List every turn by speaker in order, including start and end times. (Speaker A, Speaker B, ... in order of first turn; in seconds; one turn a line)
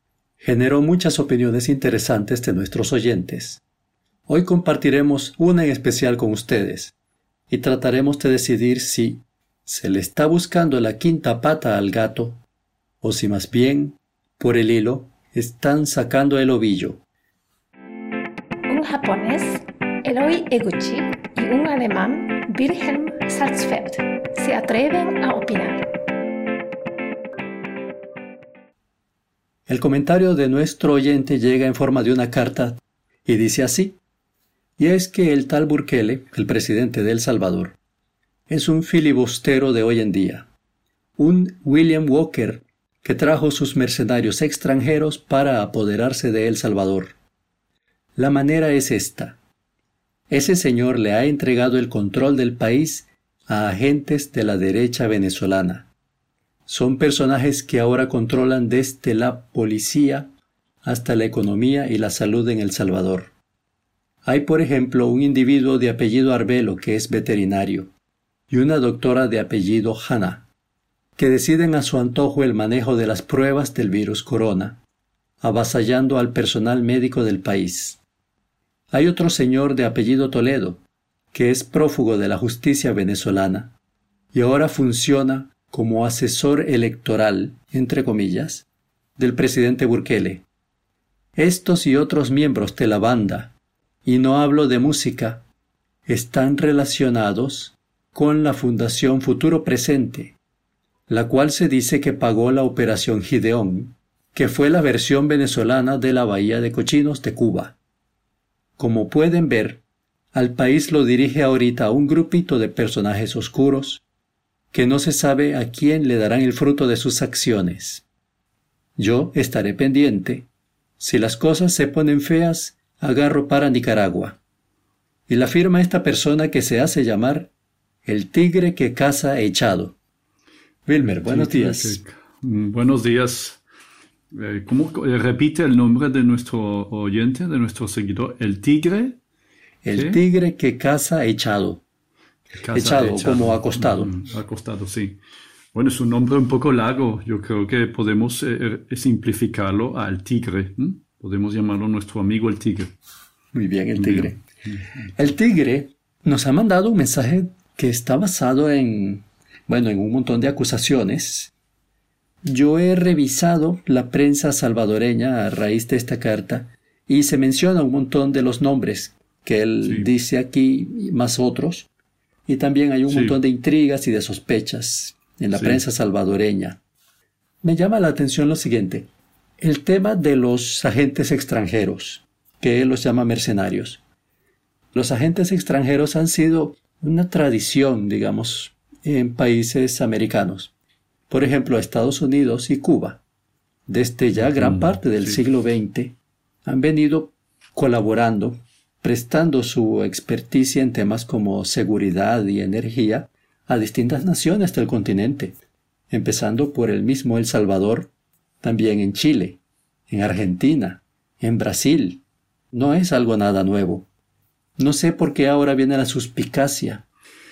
Speaker A: 0.4-3.6
Speaker A: 4.3-6.9
Speaker A: 7.5-12.4
Speaker A: 13.0-17.0
Speaker B: 18.7-25.9
Speaker A: 29.7-34.0
Speaker A: 34.8-37.8
Speaker A: 38.5-40.5
Speaker A: 41.2-47.1
Speaker A: 48.2-49.4
Speaker A: 50.3-55.9
Speaker A: 56.7-60.3
Speaker A: 60.8-63.3
Speaker A: 64.2-67.9
Speaker A: 68.5-70.5
Speaker A: 71.2-74.8
Speaker A: 75.4-78.0
Speaker A: 78.9-80.8
Speaker A: 81.3-83.7
Speaker A: 84.3-88.7
Speaker A: 89.2-90.4
Speaker A: 91.3-93.5
Speaker A: 94.0-95.4
Speaker A: 96.0-100.3
Speaker A: 101.1-107.8
Speaker A: 108.8-109.8
Speaker A: 110.3-114.0
Speaker A: 114.7-118.0
Speaker A: 119.0-120.5
Speaker A: 121.0-124.4
Speaker A: 125.3-127.5
Speaker A: 128.0-129.9
Speaker A: 130.8-132.0
Speaker C: 131.2-133.6
Speaker C: 134.3-139.2
Speaker A: 139.8-141.8
Speaker C: 139.9-140.2
Speaker C: 142.6-145.2
Speaker A: 142.7-144.1
Speaker C: 145.7-152.9
Speaker A: 153.5-154.4
Speaker C: 154.0-154.8
Speaker A: 155.1-161.5
Speaker A: 162.4-171.9
Speaker C: 169.8-170.1
Speaker A: 172.5-176.8
Speaker C: 173.1-173.3
Speaker C: 175.5-175.8
Speaker A: 177.6-179.1
Speaker A: 179.6-184.0
Speaker A: 184.9-190.7
Speaker A: 191.3-193.2
Speaker A: 193.9-205.5
Speaker C: 194.4-195.4
Speaker A: 206.1-208.1
Speaker A: 208.6-214.1
Speaker A: 214.8-217.0